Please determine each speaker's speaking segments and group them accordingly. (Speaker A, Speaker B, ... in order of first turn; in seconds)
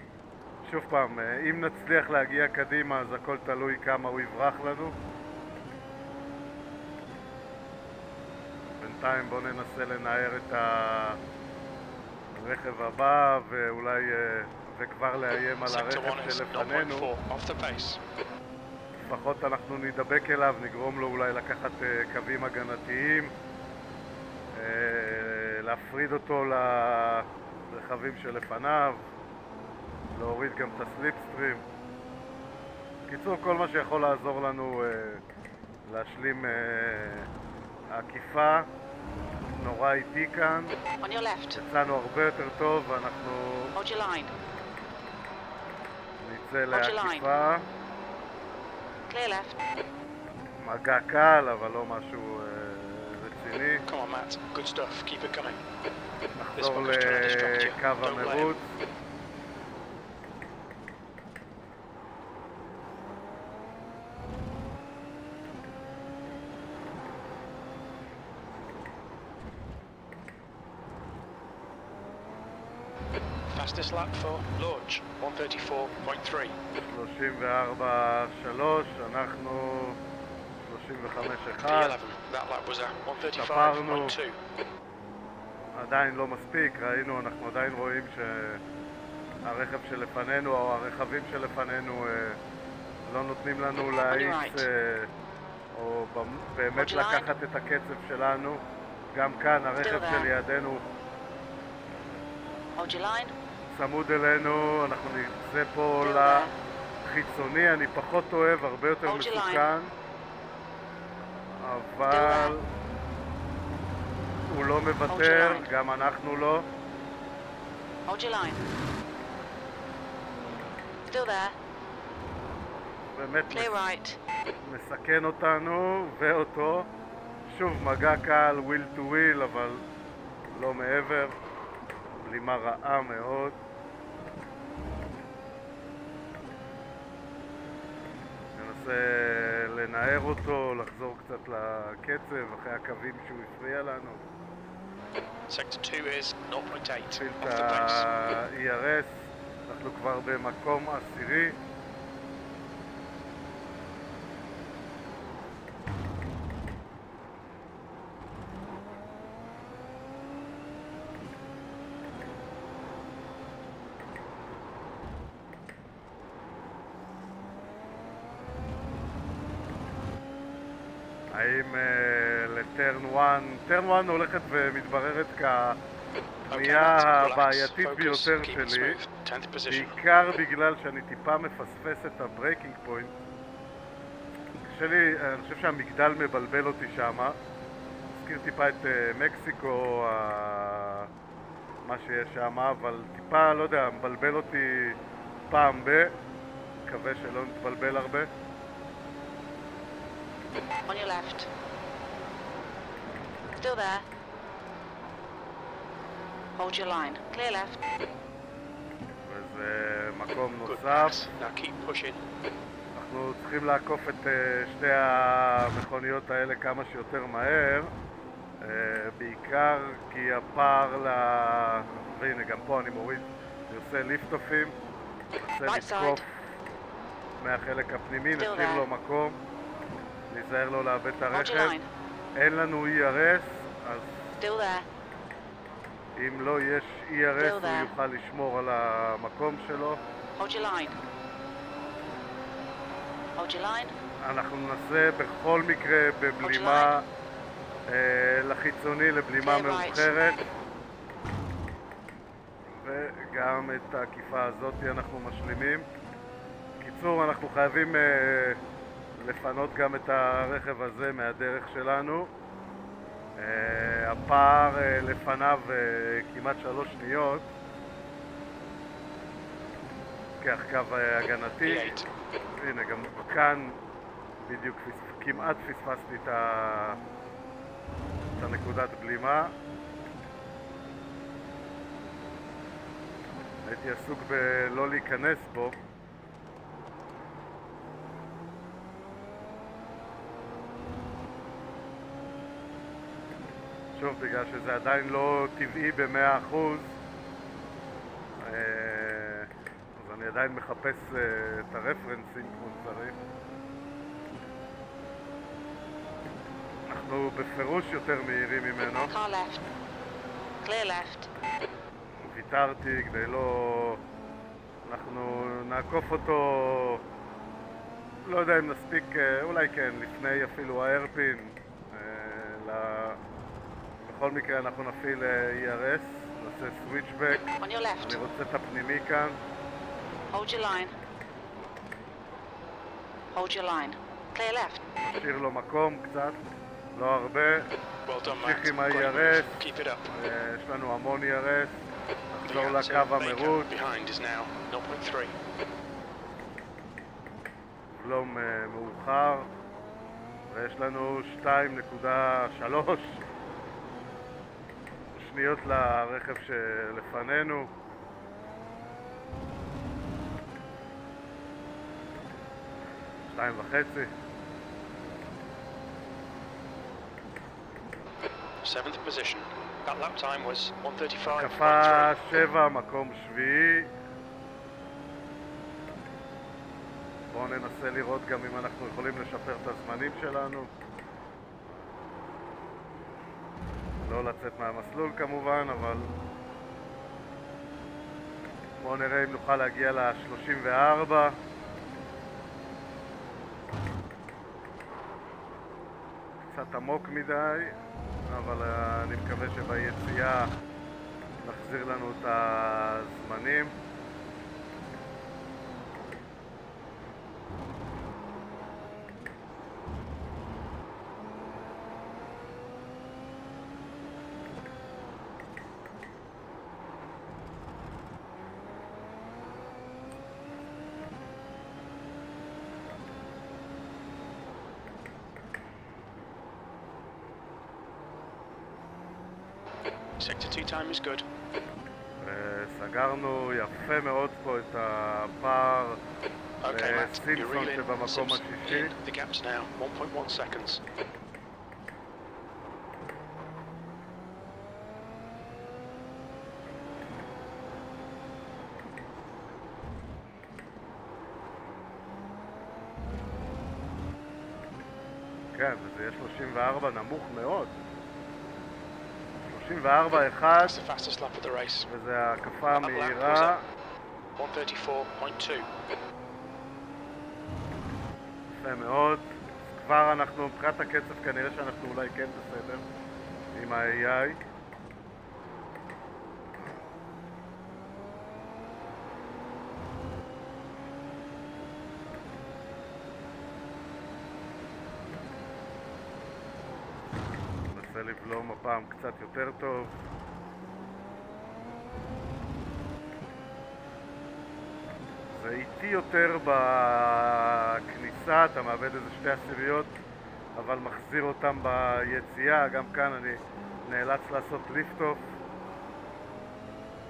Speaker A: 0.6-5.0, 8.8-11.2, 12.3-17.1, 19.0-23.3, 24.5-29.0, 30.1-31.6, 33.1-35.2, 35.9-37.3, 37.9-38.7, 39.5-40.8, 41.5-43.8, 46.2-47.7, 50.6-53.8, 56.4-58.6, 76.7-80.0, 80.6-82.0, 83.2-84.2, 85.7-88.6, 89.4-92.4, 93.0-95.1, 95.7-98.6, 99.1-100.8, 103.7-106.5, 107.0-109.9, 111.6-112.7, 114.5-116.7, 123.1-123.8, 124.6-126.9, 127.5-129.8, 130.5-131.4, 132.1-133.6, 138.6-144.2, 147.1-151.6, 171.3-175.8, 176.5-179.0, 179.7-183.1, 184.6-187.4, 188.1-191.1, 191.9-195.0, 195.5-196.1, 196.8-198.3, 209.2-211.2, 212.9-217.9, 218.6-224.8, 225.4-226.3, 227.4-229.4, 230.3-231.8, 232.4-234.1, 236.2-240.0, 244.2-247.1, 247.9-250.4, 252.8-255.9, 256.8-258.6, 259.2-262.3, 263.4-267.5, 270.4-272.0, 272.5-273.8, 274.4-277.0, 278.4-279.5, 283.6-285.8, 293.9-296.9, 298.4-303.2, 306.9-309.1, 312.2-314.0, 314.8-317.0, 318.2-323.2, 324.1-329.4, 335.0-336.4, 336.9-337.7, 338.2-339.6, 340.1-341.8, 342.4-343.7, 348.0-349.5, 350.5-353.2, 355.1-357.7, 363.3-364.1, 371.2-373.9, 377.3-380.7, 384.0-386.1, 388.8-391.4, 396.5-397.8, 398.3-400.5, 401.4-403.8, 432.2-436.0, 436.7-438.9, 455.5-457.7, 459.5-460.8, 461.9-463.6, 468.5-472.8, 473.5-474.4, 487.7-489.9, 495.3-500.0, 500.6-505.2
Speaker B: 15.7-18.0, 53.9-55.6, 56.6-58.6, 73.5-76.6, 81.6-84.3, 145.5-148.1, 176.5-180.0, 210.7-212.2, 271.6-272.1, 338.1-340.1, 342.4-345.4, 368.6-372.1, 430.2-431.2, 436.6-440.8, 460.5-461.9, 462.7-463.5, 464.4-465.7
Speaker C: 41.0-41.6, 43.8-44.3, 46.7-47.3, 49.1-49.6, 94.0-94.7, 96.8-97.3, 99.8-100.3, 102.8-103.3, 106.0-106.6, 109.0-109.7, 112.1-112.6, 115.1-115.7, 118.1-118.6, 121.1-121.6, 123.5-124.2, 200.9-201.5, 203.6-204.1, 206.6-207.8, 225.6-226.2, 228.4-228.9, 231.3-231.9, 234.4-234.9, 237.4-237.9, 240.4-241.0, 243.4-243.9, 246.4-246.9, 249.4-250.1, 309.1-309.6, 310.6-311.3, 327.6-328.2, 330.3-331.0, 333.3-334.8